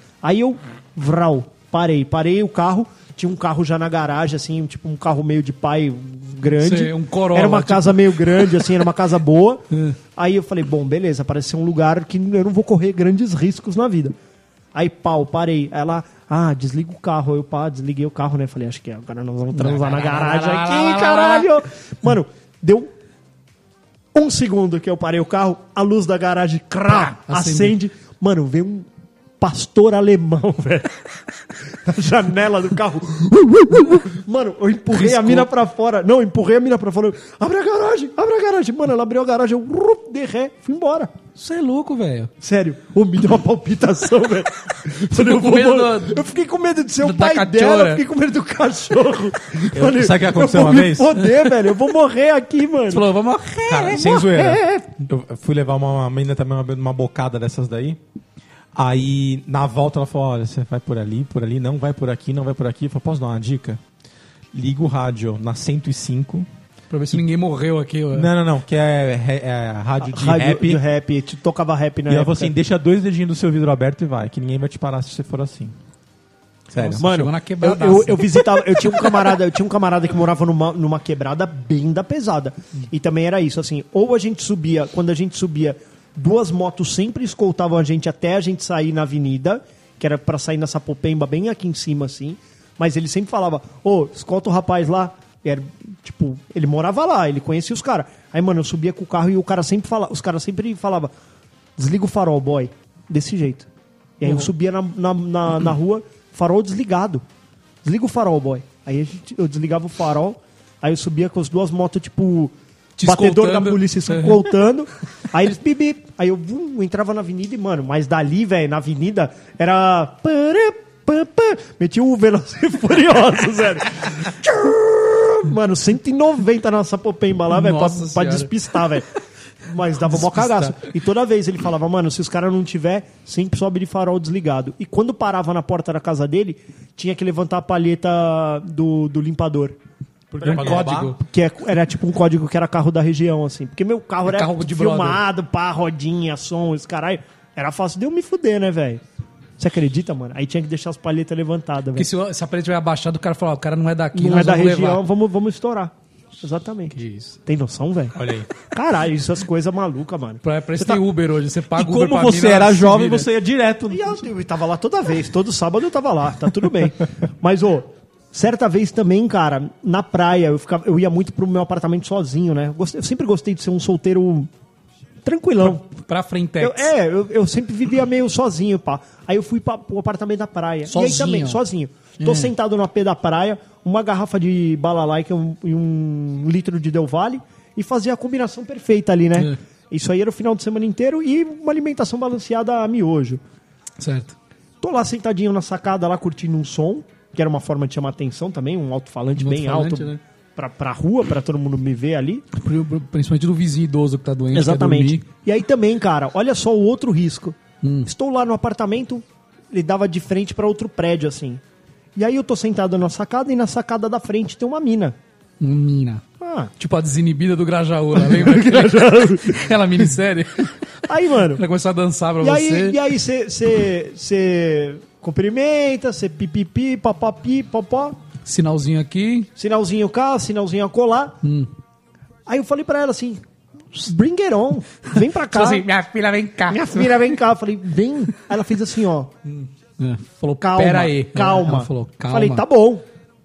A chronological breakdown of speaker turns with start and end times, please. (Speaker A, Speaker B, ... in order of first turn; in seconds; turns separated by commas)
Speaker A: 0.2-9.6, Speaker B: 6.6-8.7, Speaker B: 9.7-10.0, Speaker A: 10.2-14.2, Speaker A: 14.7-22.9, Speaker B: 19.5-21.5, Speaker A: 24.1-28.9, Speaker B: 26.9-27.8, Speaker A: 29.4-31.0, Speaker A: 31.7-41.1, Speaker B: 34.9-35.5, Speaker B: 41.4-42.3, Speaker A: 42.4-53.1, Speaker B: 45.1-46.3, Speaker B: 47.0-48.0, Speaker C: 49.7-51.3, Speaker B: 52.9-54.2, Speaker C: 53.7-58.0, Speaker A: 54.0-54.9, Speaker C: 58.8-63.8, Speaker C: 64.5-66.5, Speaker B: 66.9-68.3, Speaker C: 68.1-70.8, Speaker A: 70.0-72.5, Speaker C: 72.1-75.7, Speaker C: 76.7-77.0, Speaker B: 76.8-79.0, Speaker A: 77.0-101.1, Speaker A: 101.8-103.7, Speaker A: 104.2-107.2, Speaker B: 104.2-104.5, Speaker A: 107.8-129.1, Speaker B: 113.0-114.5, Speaker B: 127.5-128.5, Speaker A: 129.7-139.8, Speaker B: 130.1-130.8, Speaker B: 140.3-141.2, Speaker C: 140.4-141.2, Speaker A: 140.5-149.0, Speaker B: 144.3-145.2, Speaker A: 149.6-152.1, Speaker B: 152.0-155.0, Speaker A: 154.1-156.9, Speaker B: 156.9-157.3, Speaker A: 157.5-161.0, Speaker C: 158.2-158.5, Speaker B: 160.4-163.3, Speaker C: 161.8-164.2, Speaker A: 163.9-174.5, Speaker A: 175.2-175.8, Speaker B: 175.7-176.9, Speaker A: 176.6-193.4, Speaker B: 180.9-181.6, Speaker B: 182.2-182.5, Speaker B: 194.0-194.3, Speaker A: 194.8-202.4, Speaker B: 199.4-200.2, Speaker B: 202.5-205.3, Speaker A: 204.5-211.6, Speaker B: 207.8-208.1, Speaker A: 212.2-215.2, Speaker B: 215.6-216.2, Speaker A: 216.4-216.7, Speaker B: 216.8-220.7, Speaker A: 218.2-219.8, Speaker A: 221.1-221.6, Speaker B: 221.5-223.0, Speaker A: 222.4-228.2, Speaker B: 228.4-229.5, Speaker A: 229.6-231.4, Speaker B: 231.4-231.7, Speaker A: 232.5-233.4, Speaker A: 234.0-235.9, Speaker B: 235.5-237.3, Speaker A: 236.7-239.3, Speaker B: 239.5-242.6, Speaker A: 240.6-243.1